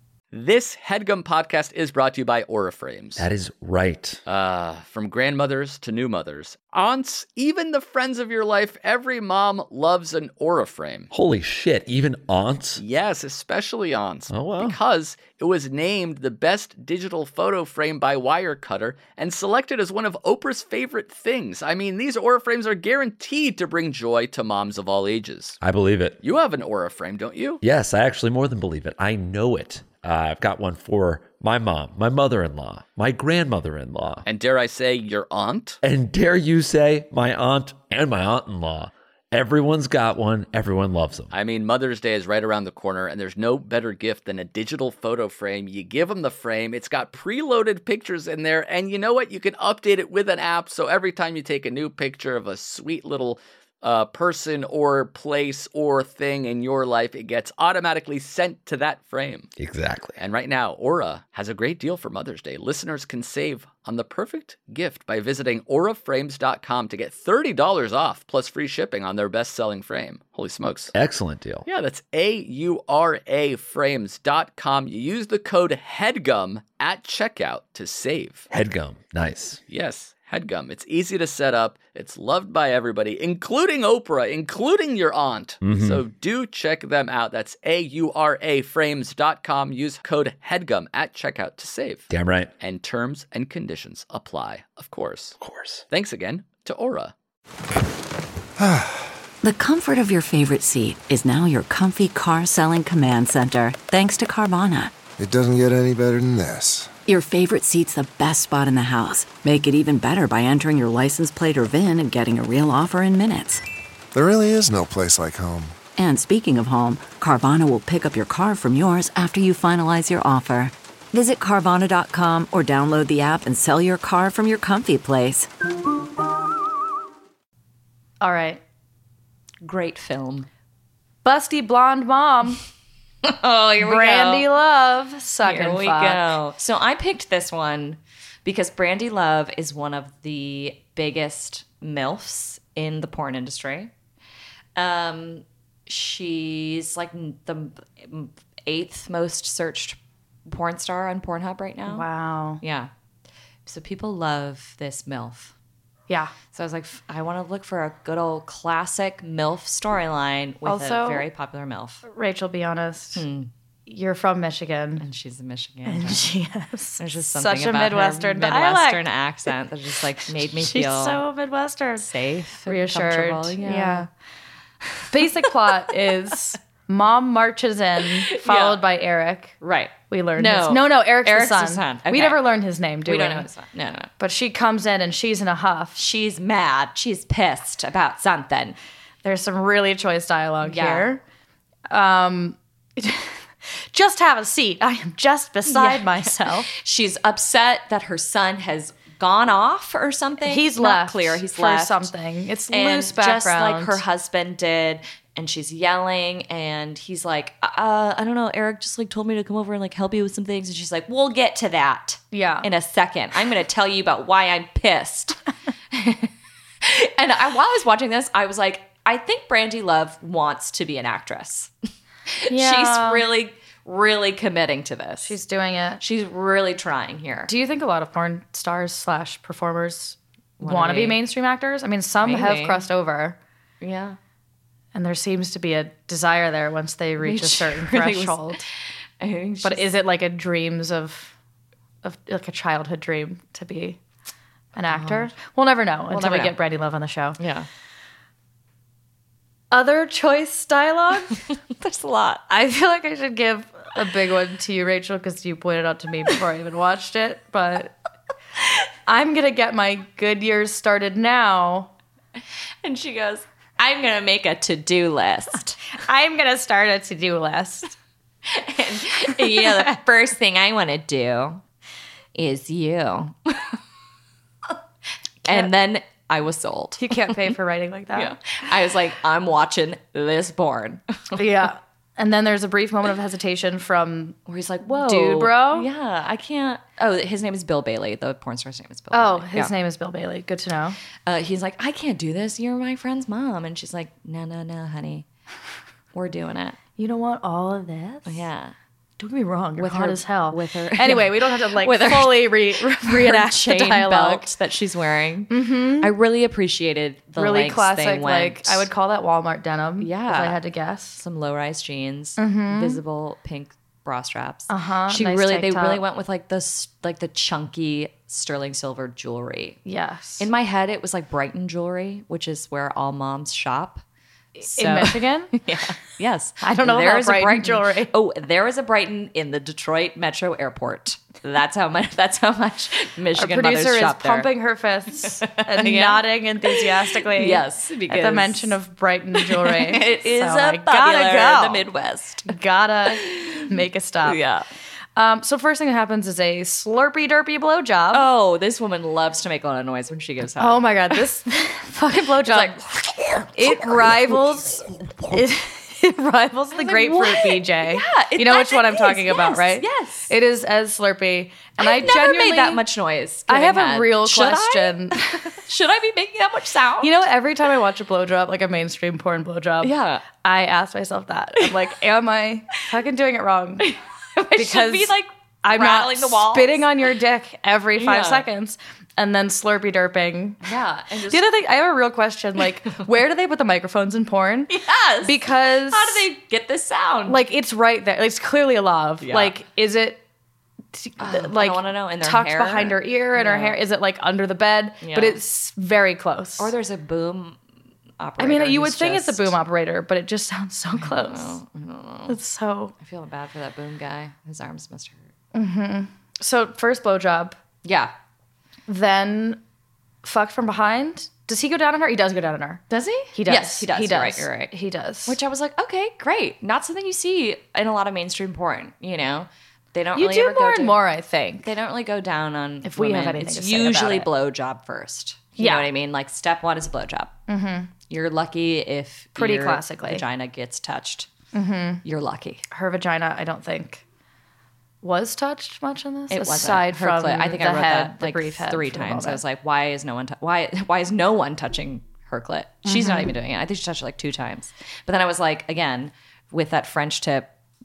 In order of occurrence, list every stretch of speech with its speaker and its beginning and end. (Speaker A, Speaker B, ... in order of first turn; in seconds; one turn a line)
Speaker A: 0.3-3.3
Speaker B: 3.2-4.2
Speaker A: 4.3-11.1
Speaker B: 11.1-12.8
Speaker A: 12.8-25.6
Speaker B: 14.3-14.8
Speaker B: 25.6-26.2
Speaker A: 26.2-27.6
Speaker B: 27.6-34.2
Speaker A: 34.2-35.8
Speaker B: 35.8-41.3
Speaker A: 41.3-59.5
Speaker B: 59.6-60.2
Speaker A: 60.2-70.9
Speaker B: 70.9-71.7
Speaker A: 71.7-78.5
Speaker B: 78.5-79.6
Speaker A: 79.7-95.4
Speaker B: 85.6-86.0
Speaker B: 92.1-92.5
Speaker B: 95.4-95.8
Speaker A: 95.9-97.1
Speaker C: 98.6-99.1
Speaker D: 99.4-105.0
Speaker C: 105.2-107.0
Speaker D: 107.1-113.6
Speaker C: 114.1-115.8
Speaker D: 116.0-125.5
Speaker E: 128.2-128.6
Speaker F: 129.6-130.5
Speaker E: 131.2-132.6
Speaker F: 133.2-134.5
Speaker E: 133.8-136.2
Speaker F: 135.4-143.9
Speaker F: 144.8-152.1
Speaker E: 151.9-152.6
Speaker F: 152.6-152.9
Speaker F: 153.7-155.5
Speaker E: 156.1-156.3
Speaker F: 156.5-162.0
Speaker E: 160.7-161.3
Speaker E: 162.1-163.2
Speaker F: 163.2-163.5
Speaker E: 163.9-165.1
Speaker F: 165.0-166.3
Speaker E: 165.8-169.0
Speaker F: 167.0-171.2
Speaker E: 170.5-172.1
Speaker F: 172.0-174.1
Speaker E: 172.7-174.1
Speaker F: 174.9-175.5
Speaker E: 175.1-179.6
Speaker F: 178.2-178.8
Speaker F: 179.6-182.5
Speaker E: 180.1-183.5
Speaker F: 183.1-184.1
Speaker E: 184.2-186.0
Speaker F: 186.0-188.8
Speaker E: 189.2-191.2
Speaker F: 190.6-191.1
Speaker E: 191.9-196.7
Speaker F: 195.7-202.1
Speaker E: 200.4-204.0
Speaker F: 202.7-215.4
Speaker E: 212.3-212.7
Speaker F: 215.9-216.3
Speaker F: 216.8-221.7
Speaker F: 222.3-225.4
Speaker E: 222.5-223.2
Speaker E: 225.2-226.0
Speaker F: 226.0-227.5
Speaker E: 227.5-233.4
Speaker F: 230.6-231.2
Speaker F: 232.2-232.8
Speaker F: 233.8-234.2
Speaker E: 234.9-238.7
Speaker F: 237.2-238.6
Speaker F: 239.2-239.9
Speaker E: 239.6-241.3
Speaker E: 242.0-244.0
Speaker E: 244.8-247.4
Speaker F: 244.9-245.3
Speaker F: 246.1-246.6
Speaker F: 247.4-247.7
Speaker E: 249.7-251.4
Speaker F: 251.8-252.4
Speaker E: 252.5-257.9
Speaker E: 259.1-261.9
Speaker F: 262.8-266.0
Speaker E: 266.0-268.0
Speaker F: 268.5-271.6
Speaker E: 269.3-270.0
Speaker F: 272.4-273.8
Speaker F: 275.4-277.6
Speaker E: 275.5-275.7
Speaker E: 277.0-278.3
Speaker F: 278.1-281.4
Speaker E: 281.4-285.9
Speaker F: 284.5-289.7
Speaker E: 289.1-291.0
Speaker F: 291.3-295.3
Speaker F: 296.1-296.8
Speaker E: 297.0-298.5
Speaker F: 298.3-298.7
Speaker E: 299.2-304.5
Speaker F: 299.8-308.9
Speaker E: 305.5-306.1
Speaker E: 307.4-311.2
Speaker F: 310.0-310.6
Speaker F: 311.2-319.8
Speaker E: 312.4-313.0
Speaker E: 314.7-316.0
Speaker E: 319.9-320.5
Speaker F: 320.4-324.0
Speaker E: 324.6-325.5
Speaker F: 324.6-334.5
Speaker E: 326.6-328.1
Speaker E: 333.4-341.9
Speaker F: 335.2-338.8
Speaker F: 339.4-342.5
Speaker E: 342.5-344.4
Speaker F: 343.1-344.7
Speaker E: 345.2-348.3
Speaker F: 348.1-351.2
Speaker E: 350.6-352.8
Speaker F: 352.4-354.5
Speaker E: 353.5-362.8
Speaker F: 356.7-360.3
Speaker F: 361.8-367.2
Speaker E: 363.5-365.6
Speaker E: 367.0-373.9
Speaker F: 369.8-370.3
Speaker F: 373.8-376.9
Speaker E: 374.6-375.1
Speaker E: 375.6-380.7
Speaker F: 378.0-378.5
Speaker F: 380.6-381.5
Speaker E: 381.3-386.3
Speaker F: 384.7-387.4
Speaker E: 387.3-390.2
Speaker F: 389.2-389.5
Speaker E: 390.9-396.7
Speaker F: 391.2-393.8
Speaker F: 395.0-395.4
Speaker F: 396.6-397.6
Speaker F: 398.2-399.5
Speaker E: 398.4-401.6
Speaker F: 401.0-402.4
Speaker E: 402.3-402.9
Speaker F: 403.0-405.2
Speaker E: 405.5-407.6
Speaker F: 407.8-408.1
Speaker E: 408.9-409.6
Speaker E: 410.2-412.8
Speaker F: 412.9-414.7
Speaker E: 413.3-415.4
Speaker F: 415.3-421.0
Speaker E: 420.2-421.7
Speaker F: 421.6-427.4
Speaker E: 422.8-424.3
Speaker E: 425.6-425.9
Speaker E: 427.5-427.9
Speaker F: 428.1-431.3
Speaker E: 429.4-430.2
Speaker E: 431.5-432.0
Speaker F: 432.0-432.6
Speaker E: 432.7-434.0
Speaker E: 435.0-439.4
Speaker F: 436.3-447.5
Speaker E: 442.9-443.3